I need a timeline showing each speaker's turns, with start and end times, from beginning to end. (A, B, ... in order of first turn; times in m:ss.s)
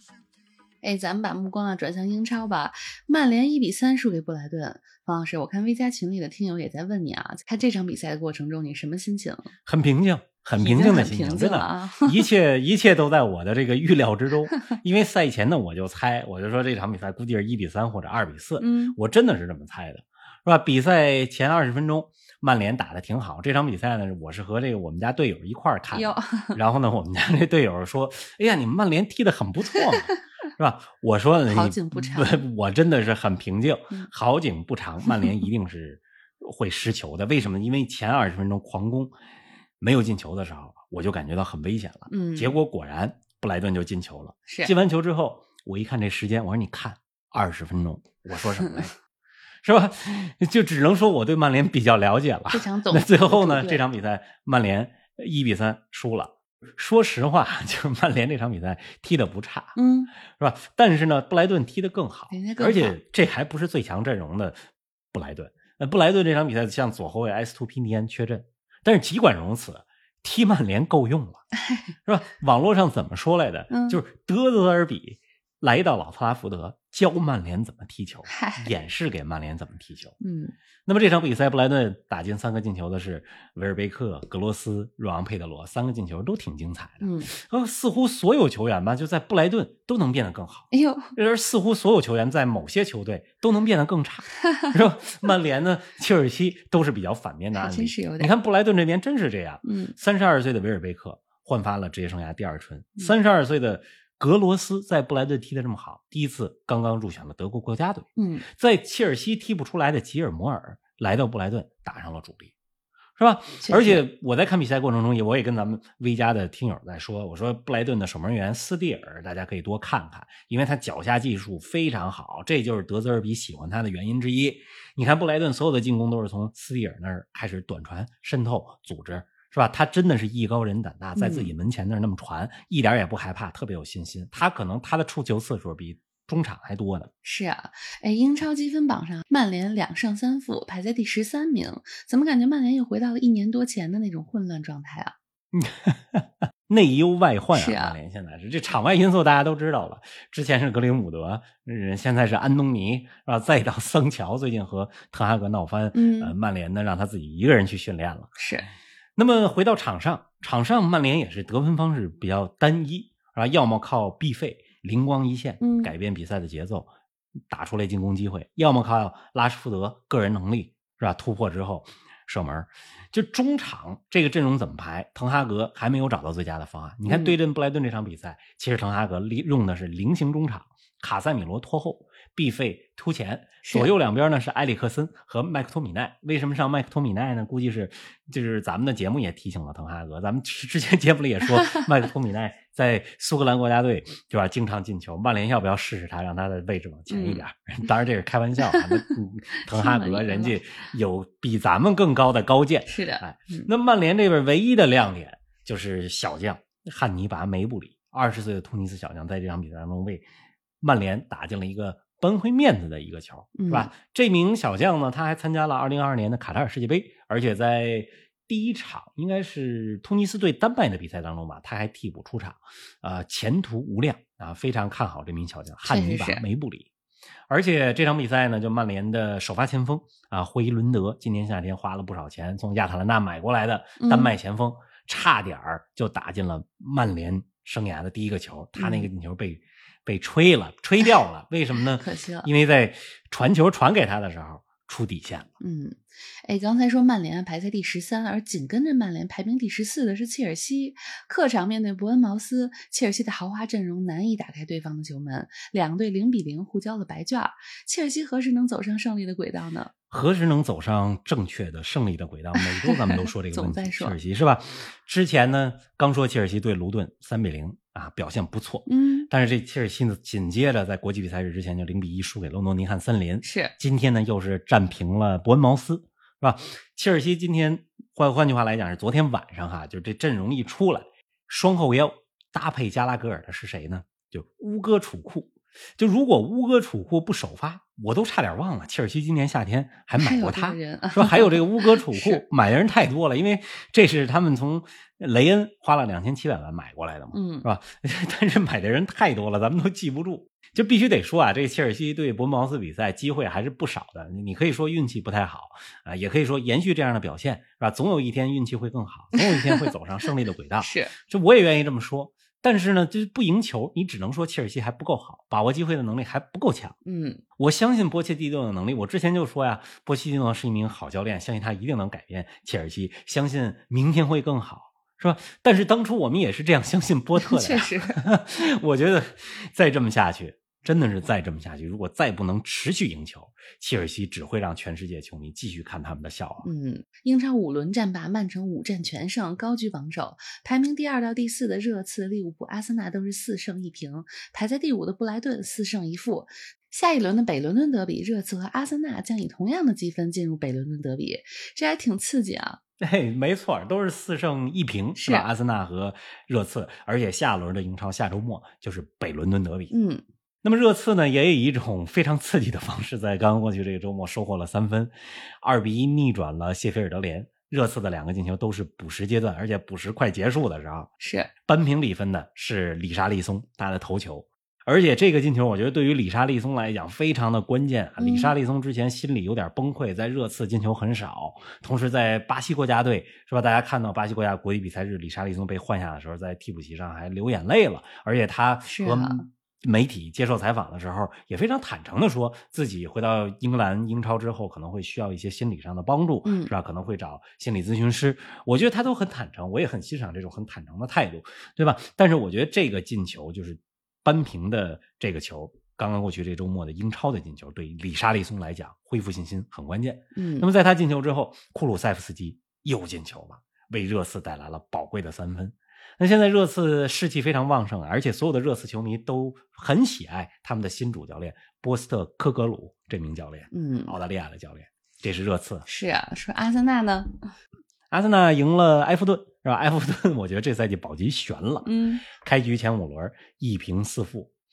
0:00.8-0:09.5 A
0:09.6-0:39.1 B
0:10.5-0:12.3 A
0:18.6-0:19.0 A
0:25.9-0:26.6 A
0:31.5-0:32.4 A
0:39.8-0:48.9 B
0:42.1-0:42.6 A
0:44.5-0:44.7 A
0:48.6-0:48.9 A
0:49.6-1:11.4 B
0:52.5-0:53.8 A
0:59.7-1:00.1 A
1:02.3-1:03.0 A
1:12.0-1:20.2 B
1:13.7-1:14.0 A
1:18.3-1:18.7 A
1:20.2-1:20.5 A
1:20.8-1:52.5 B
1:27.0-1:27.3 A
1:30.7-1:31.1 A
1:37.5-1:38.3 A
1:39.6-1:39.9 A
1:48.2-1:48.4 A
1:53.2-2:17.1 B
1:53.6-1:54.0 A
2:11.2-2:11.5 A
2:17.2-2:25.1 A
2:25.5-2:38.3 B
2:27.5-2:28.0 A
2:35.9-2:36.3 A
2:38.4-2:38.7 A
2:39.2-2:46.9 B
2:45.6-2:45.9 A
2:47.5-3:30.2 B
2:57.1-2:57.4 A
3:03.6-3:03.9 A
3:17.1-3:17.4 A
3:18.6-3:20.6 A
3:22.9-3:23.7 A
3:30.8-3:46.9 B
3:33.5-3:33.9 A
3:45.8-3:46.4 A
3:47.5-4:05.5 B
3:54.0-3:54.3 A
3:58.8-3:59.1 A
4:01.9-4:02.5 A
4:05.6-4:19.9 A
4:20.1-5:17.0 B
4:22.6-4:24.2 A
4:28.9-4:29.3 A
4:33.4-4:33.7 A
4:50.2-4:52.4 A
4:57.3-4:57.7 A
5:09.3-5:09.9 A
5:10.8-5:11.1 A
5:17.0-5:17.4 A
5:17.6-5:36.7 B
5:27.4-5:28.2 A
5:36.6-5:52.8 A
5:53.0-5:59.9 B
5:55.2-5:55.5 A
5:59.9-6:00.2 A
6:00.6-6:11.1 B
6:11.2-6:11.5 A
6:11.6-7:05.8 B
6:18.2-6:18.5 A
6:28.8-6:29.5 A
6:36.4-6:36.7 A
6:50.3-6:50.7 A
7:03.7-7:04.2 A
7:05.9-7:07.5 A
7:08.1-7:14.5 B
7:11.8-7:12.2 A